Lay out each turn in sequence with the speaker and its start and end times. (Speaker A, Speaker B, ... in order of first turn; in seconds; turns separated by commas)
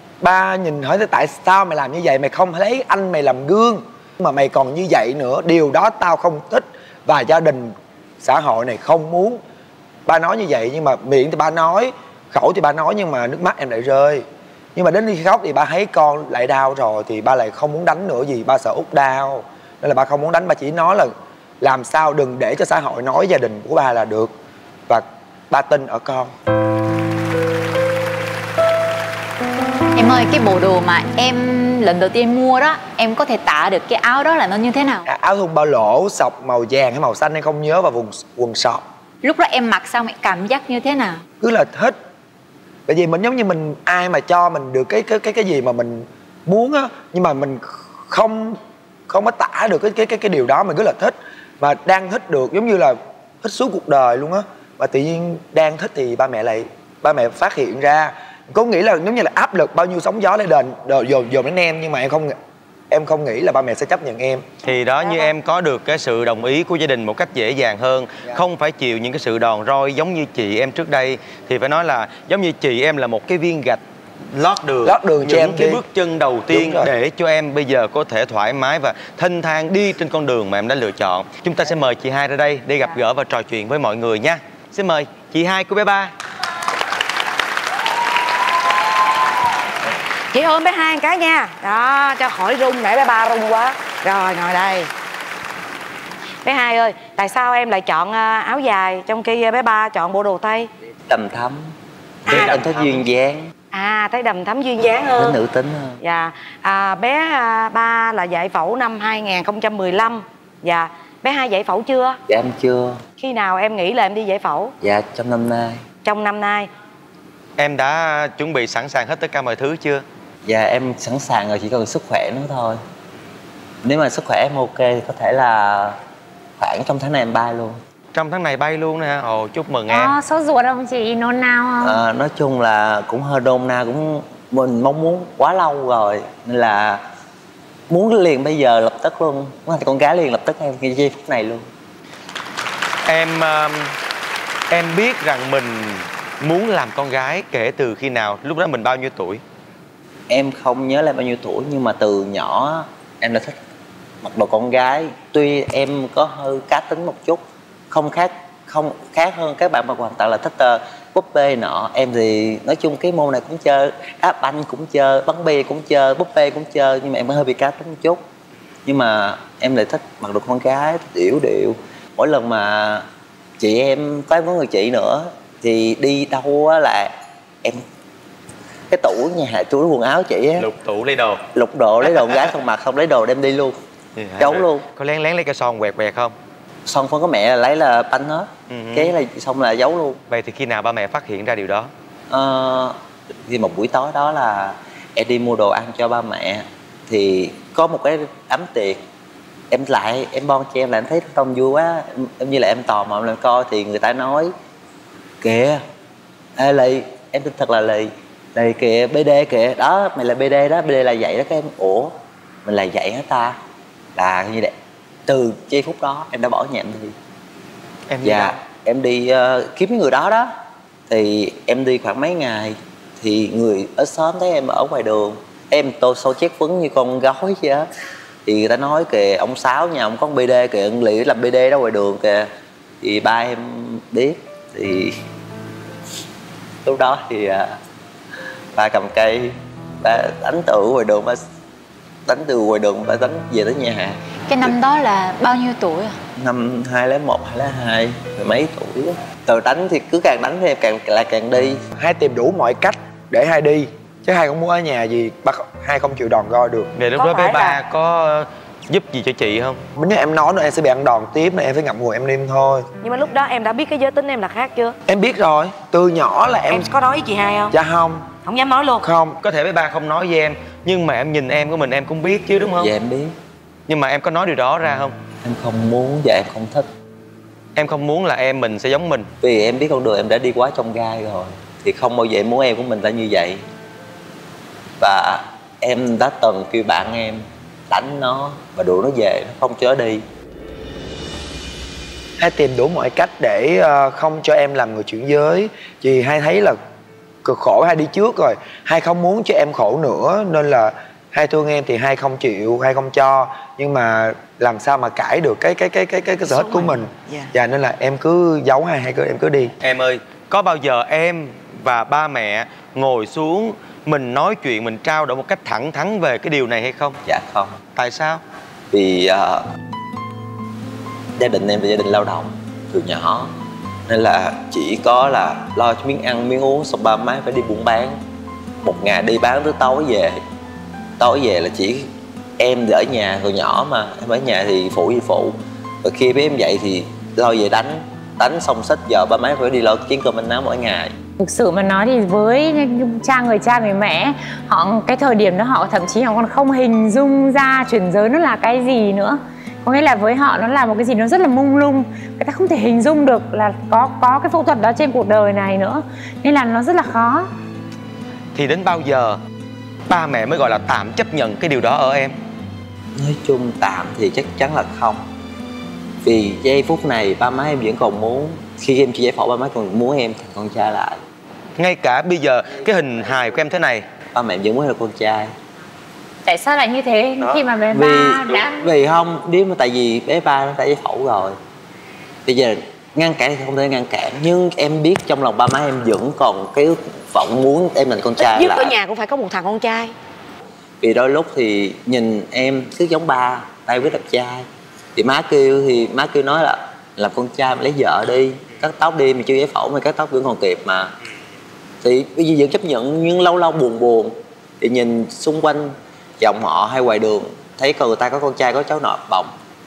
Speaker A: 0.2-9.4, Speaker A: 10.1-14.2, Speaker A: 14.7-24.3, Speaker A: 24.9-26.3, Speaker B: 29.9-35.0, Speaker A: 35.1-38.8, Speaker B: 39.2-41.2, Speaker A: 41.4-42.0, Speaker A: 42.9-62.3, Speaker A: 62.9-64.4, Speaker C: 64.6-73.8, Speaker C: 74.3-86.1, Speaker A: 74.8-75.8, Speaker A: 76.5-76.9, Speaker D: 90.3-94.9, Speaker D: 96.4-100.7, Speaker E: 101.1-101.7, Speaker E: 102.2-103.5, Speaker D: 102.3-102.7, Speaker D: 103.7-105.4, Speaker E: 105.2-106.0, Speaker D: 106.0-112.2, Speaker E: 112.3-113.0, Speaker D: 113.2-114.7, Speaker E: 114.8-115.8, Speaker D: 116.0-116.7, Speaker C: 117.6-120.0, Speaker E: 120.4-122.8, Speaker E: 123.8-126.0, Speaker E: 126.6-127.8, Speaker C: 128.1-130.2, Speaker F: 129.9-132.0, Speaker E: 131.8-137.0, Speaker E: 137.9-141.7, Speaker C: 143.1-143.9, Speaker C: 144.7-149.4, Speaker E: 150.3-153.6, Speaker E: 154.2-168.2, Speaker E: 168.8-173.0, Speaker E: 173.6-177.1, Speaker E: 178.9-180.7, Speaker C: 180.6-181.4, Speaker E: 181.5-183.8, Speaker C: 184.2-186.3, Speaker E: 184.4-184.8, Speaker E: 186.8-190.2, Speaker C: 188.7-189.1, Speaker C: 190.3-191.9, Speaker E: 192.3-199.0, Speaker E: 199.7-204.5, Speaker E: 205.4-205.8, Speaker E: 206.6-213.6, Speaker E: 214.2-214.7, Speaker E: 215.3-217.1, Speaker C: 218.1-218.6, Speaker E: 218.2-220.5, Speaker E: 221.1-227.8, Speaker E: 228.4-232.5, Speaker E: 233.0-235.1, Speaker E: 236.8-237.7, Speaker E: 238.7-241.4, Speaker E: 242.2-244.7, Speaker B: 244.5-246.2, Speaker E: 246.3-251.8, Speaker A: 251.9-256.9, Speaker C: 256.9-259.8, Speaker D: 257.1-257.8, Speaker A: 260.0-262.9, Speaker D: 263.0-265.0, Speaker A: 265.1-266.9, Speaker D: 266.7-267.7, Speaker A: 267.7-268.3, Speaker D: 268.4-269.0, Speaker A: 269.0-269.4, Speaker C: 269.4-272.9, Speaker E: 272.8-273.3, Speaker C: 273.9-275.1, Speaker E: 275.4-276.9, Speaker C: 277.8-279.3, Speaker E: 279.4-283.6, Speaker E: 285.0-290.2, Speaker A: 292.4-296.8, Speaker A: 297.4-309.7, Speaker D: 306.5-307.5, Speaker C: 309.8-317.2, Speaker E: 317.2-317.8, Speaker C: 317.9-318.4, Speaker E: 318.9-319.6, Speaker E: 321.4-323.5, Speaker E: 324.1-328.1, Speaker E: 328.8-330.4, Speaker E: 331.2-341.1, Speaker F: 341.4-357.5, Speaker C: 358.5-359.4, Speaker C: 360.1-362.3, Speaker E: 363.1-365.2, Speaker E: 366.2-371.2, Speaker C: 371.8-374.1, Speaker E: 374.3-375.5, Speaker F: 376.4-378.9, Speaker E: 377.9-381.5, Speaker E: 382.4-388.9, Speaker D: 388.4-390.1, Speaker E: 391.0-401.1, Speaker E: 402.0-409.5